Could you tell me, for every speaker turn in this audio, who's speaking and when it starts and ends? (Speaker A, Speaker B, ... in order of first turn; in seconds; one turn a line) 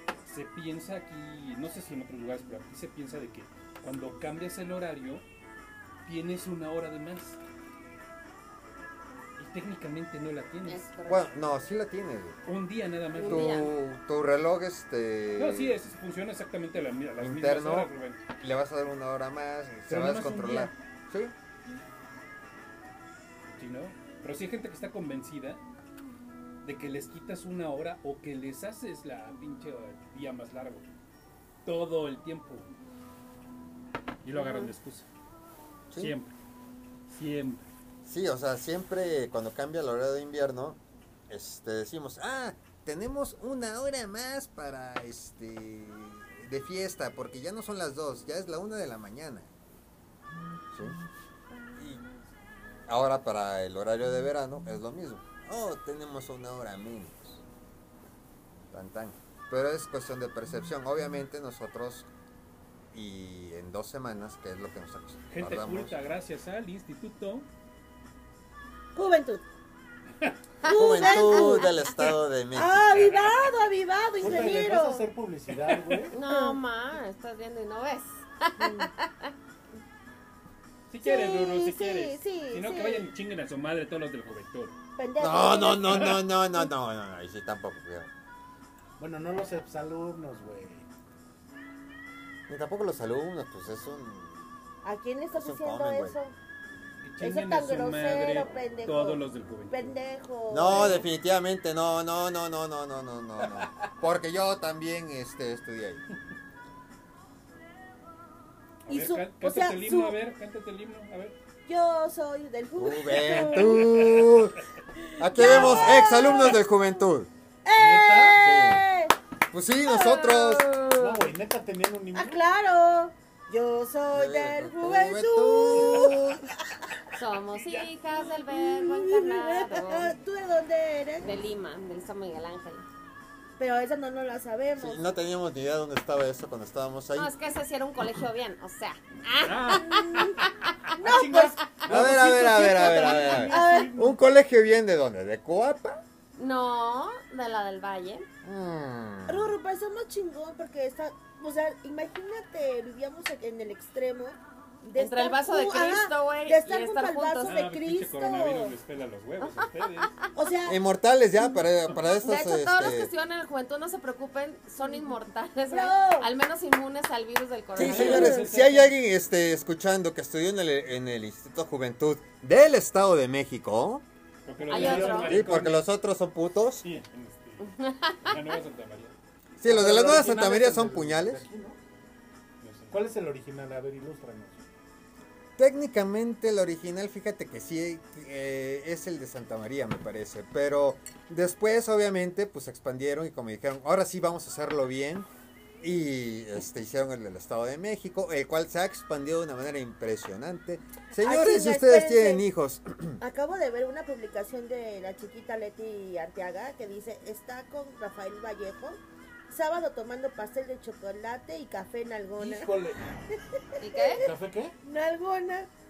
Speaker A: 0.2-5.2
Speaker A: 6.0-7.4
Speaker A: 9.4-10.9
Speaker B: 10.6-11.3
Speaker C: 11.1-12.4
Speaker A: 12.4-13.7
Speaker B: 13.1-13.7
Speaker C: 13.2-15.8
Speaker A: 15.4-18.2
Speaker C: 17.2-21.3
Speaker A: 19.9-20.7
Speaker D: 19.9-20.6
Speaker A: 23.6-25.6
Speaker A: 26.6-30.9
Speaker A: 31.6-32.6
Speaker A: 34.2-35.1
Speaker B: 34.4-34.7
Speaker C: 35.9-36.1
Speaker A: 36.0-36.3
Speaker A: 37.1-37.6
Speaker C: 38.0-49.5
Speaker C: 50.7-51.0
Speaker C: 51.8-52.0
Speaker C: 52.9-57.4
Speaker C: 58.7-62.1
Speaker C: 62.9-66.0
Speaker A: 65.3-67.5
Speaker E: 68.9-69.4
Speaker B: 70.6-71.7
Speaker E: 70.6-71.8
Speaker C: 70.7-73.2
Speaker E: 72.5-75.1
Speaker A: 73.0-73.3
Speaker D: 74.2-76.1
Speaker B: 76.1-79.3
Speaker E: 76.1-76.6
Speaker E: 78.6-78.9
Speaker A: 80.9-84.7
Speaker E: 81.0-83.1
Speaker E: 85.0-86.3
Speaker C: 85.2-88.1
Speaker D: 89.0-90.8
Speaker C: 92.5-94.5
Speaker E: 94.8-96.3
Speaker C: 95.3-96.2
Speaker A: 97.0-100.0
Speaker E: 97.2-101.0
Speaker C: 100.5-106.0
Speaker A: 108.8-111.3
Speaker E: 108.9-110.2
Speaker E: 111.7-114.0
Speaker C: 112.8-114.6
Speaker A: 113.8-114.2
Speaker E: 115.0-116.6
Speaker C: 115.2-117.3
Speaker D: 115.4-116.3
Speaker E: 117.6-119.1
Speaker D: 117.8-118.4
Speaker C: 118.4-118.8
Speaker C: 119.5-120.7
Speaker E: 120.0-120.4
Speaker B: 120.4-121.0
Speaker D: 120.9-122.4
Speaker E: 122.1-126.4
Speaker C: 124.1-126.4
Speaker B: 127.2-130.1
Speaker E: 128.2-131.3
Speaker B: 131.2-132.8
Speaker E: 133.6-135.0
Speaker C: 134.8-137.3
Speaker B: 137.1-140.4
Speaker A: 139.4-140.4
Speaker E: 139.9-140.3
Speaker E: 141.0-141.7
Speaker D: 141.0-144.1
Speaker C: 141.9-146.0
Speaker E: 142.6-144.1
Speaker B: 146.3-148.3
Speaker C: 148.4-149.5
Speaker E: 149.3-158.7
Speaker B: 155.0-157.6
Speaker A: 157.4-160.2
Speaker B: 159.4-159.7
Speaker E: 160.3-160.8
Speaker C: 160.7-163.1
Speaker B: 162.2-168.3
Speaker E: 164.8-165.1
Speaker E: 165.7-166.3
Speaker C: 167.8-174.0
Speaker A: 167.8-168.8
Speaker E: 167.9-168.4
Speaker A: 174.4-175.8
Speaker D: 174.6-175.6
Speaker B: 174.7-175.4
Speaker C: 175.3-176.8
Speaker A: 176.8-177.7
Speaker B: 177.6-178.4
Speaker A: 178.2-179.1
Speaker C: 179.6-181.4
Speaker D: 179.6-181.8
Speaker A: 182.6-183.1
Speaker D: 182.9-184.6
Speaker C: 185.6-195.3
Speaker C: 195.8-203.2
Speaker E: 201.2-202.4
Speaker E: 203.2-212.7
Speaker D: 212.4-213.0
Speaker B: 213.8-214.2
Speaker E: 213.8-214.3
Speaker D: 214.2-214.7
Speaker E: 214.8-215.7